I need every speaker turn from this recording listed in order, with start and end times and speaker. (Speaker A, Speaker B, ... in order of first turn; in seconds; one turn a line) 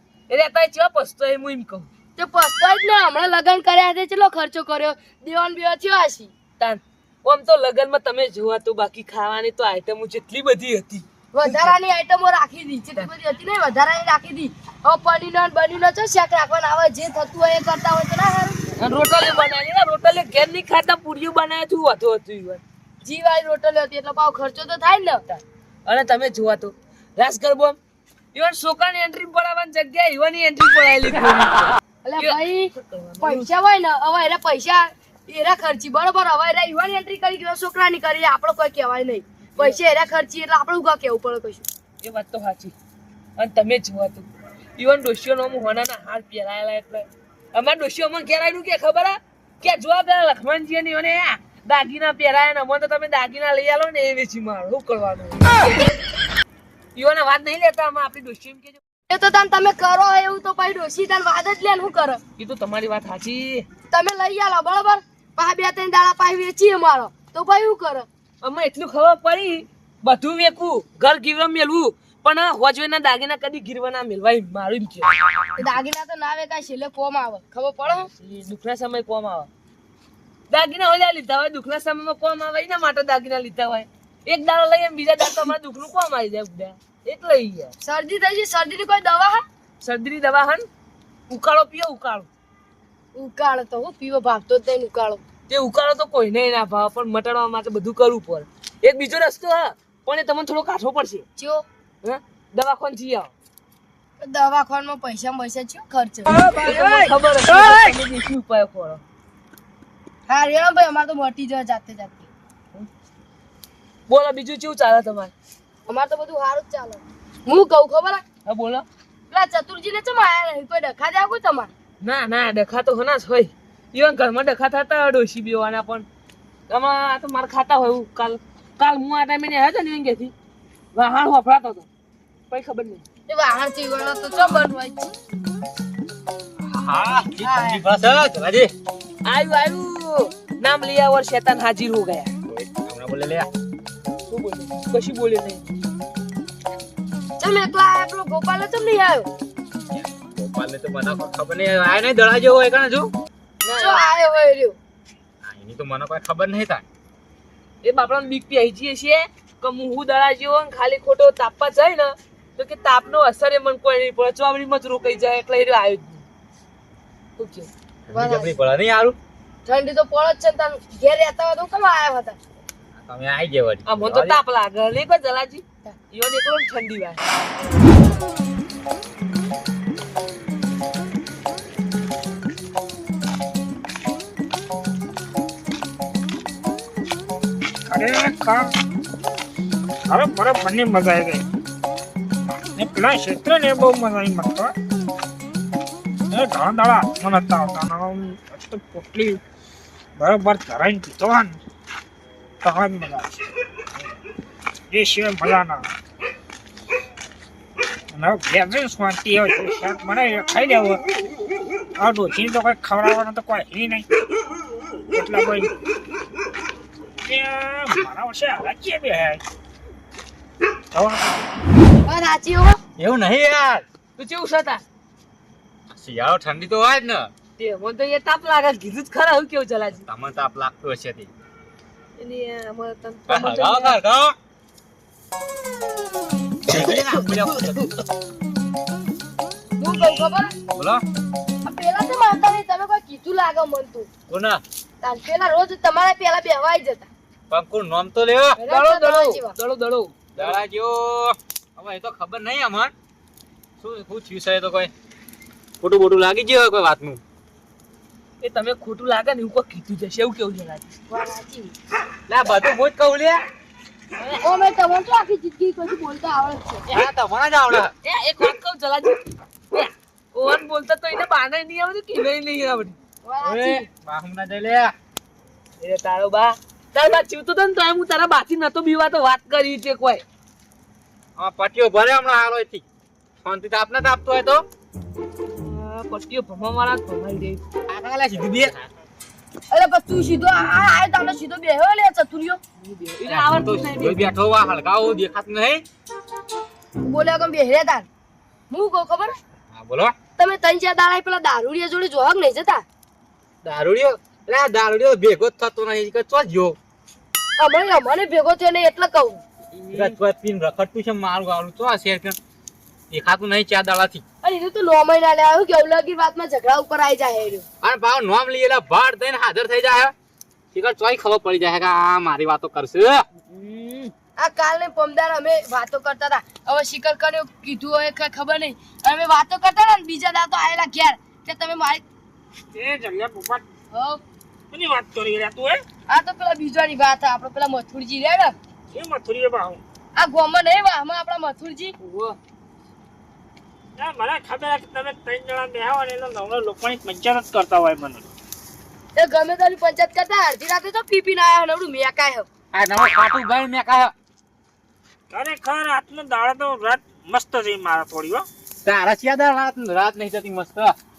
Speaker A: 0.3-1.9
Speaker B: 2.2-6.3
Speaker A: 6.6-11.8
Speaker B: 11.3-18.6
Speaker A: 18.8-22.6
Speaker B: 23.0-25.2
Speaker A: 25.3-27.8
Speaker A: 28.3-33.5
Speaker B: 32.0-41.6
Speaker A: 42.0-42.7
Speaker A: 43.4-44.3
Speaker A: 44.8-56.0
Speaker A: 57.0-58.8
Speaker B: 59.1-62.2
Speaker A: 62.4-63.6
Speaker B: 63.9-68.1
Speaker A: 68.4-75.2
Speaker B: 75.5-78.1
Speaker A: 78.2-79.5
Speaker A: 80.5-87.7
Speaker B: 87.8-89.4
Speaker A: 89.8-90.7
Speaker A: 91.3-92.3
Speaker B: 93.1-95.2
Speaker A: 95.5-101.2
Speaker B: 101.4-101.6
Speaker A: 102.0-103.3
Speaker B: 104.2-107.0
Speaker A: 106.3-109.0
Speaker B: 110.3-112.3
Speaker A: 114.1-115.3
Speaker B: 115.9-118.2
Speaker A: 118.5-118.8
Speaker B: 119.3-121.7
Speaker A: 122.0-126.0
Speaker A: 126.7-130.3
Speaker A: 130.9-131.8
Speaker A: 132.5-133.0
Speaker B: 133.3-135.1
Speaker C: 136.7-138.7
Speaker A: 139.2-142.3
Speaker C: 142.5-143.5
Speaker A: 144.3-145.7
Speaker B: 147.4-149.3
Speaker C: 149.9-153.1
Speaker A: 153.6-154.1
Speaker B: 153.8-154.8
Speaker C: 155.4-156.8
Speaker A: 157.8-166.2
Speaker A: 167.4-167.7
Speaker C: 168.1-169.2
Speaker B: 168.1-168.5
Speaker B: 169.7-172.4
Speaker C: 173.0-174.4
Speaker A: 173.8-177.2
Speaker D: 187.9-188.7
Speaker D: 190.1-191.4
Speaker D: 192.7-194.7
Speaker D: 196.3-199.4
Speaker D: 200.2-201.6
Speaker D: 202.6-203.3
Speaker D: 204.9-205.9
Speaker D: 208.1-211.0
Speaker D: 212.0-214.1
Speaker D: 215.1-215.7
Speaker D: 217.2-219.4
Speaker D: 220.9-221.5
Speaker B: 222.1-222.8
Speaker C: 223.0-223.8
Speaker A: 224.2-224.8
Speaker C: 225.9-227.3
Speaker A: 227.6-230.1
Speaker C: 230.0-231.3
Speaker A: 232.2-234.0
Speaker C: 233.3-234.3
Speaker C: 236.7-237.8
Speaker B: 239.8-240.5
Speaker C: 240.7-241.0
Speaker B: 241.6-244.1
Speaker C: 244.3-244.6
Speaker B: 245.0-247.1
Speaker C: 247.5-248.6
Speaker B: 248.6-249.6
Speaker A: 248.7-250.6
Speaker C: 250.3-252.9
Speaker C: 253.8-254.9
Speaker C: 255.8-257.2
Speaker A: 258.4-260.9
Speaker B: 261.1-261.7
Speaker C: 262.3-263.4
Speaker A: 264.2-264.6
Speaker B: 264.4-266.9
Speaker C: 266.9-267.9
Speaker A: 268.0-272.9
Speaker B: 273.2-273.9
Speaker C: 273.4-274.9
Speaker A: 275.8-280.2
Speaker C: 281.4-282.8
Speaker C: 283.4-284.6
Speaker A: 285.5-287.6
Speaker C: 287.9-288.7
Speaker B: 289.7-292.6
Speaker A: 292.8-294.3
Speaker C: 293.3-295.8
Speaker B: 297.0-298.1
Speaker B: 298.7-299.3
Speaker C: 299.7-300.1
Speaker B: 300.4-302.8
Speaker C: 303.6-306.8
Speaker B: 307.6-309.4
Speaker A: 309.9-310.1
Speaker C: 309.9-312.4
Speaker C: 313.1-314.2
Speaker B: 314.4-317.6
Speaker C: 317.8-320.1
Speaker C: 320.7-323.2
Speaker A: 323.5-324.1
Speaker B: 324.4-332.0
Speaker D: 332.7-333.6
Speaker B: 333.9-334.2
Speaker D: 334.7-335.8
Speaker B: 336.1-338.5
Speaker D: 338.9-339.8
Speaker B: 340.2-341.9
Speaker A: 342.0-342.4
Speaker D: 344.0-348.3
Speaker B: 349.1-352.4
Speaker C: 352.7-354.1
Speaker D: 355.3-358.5
Speaker C: 358.8-360.9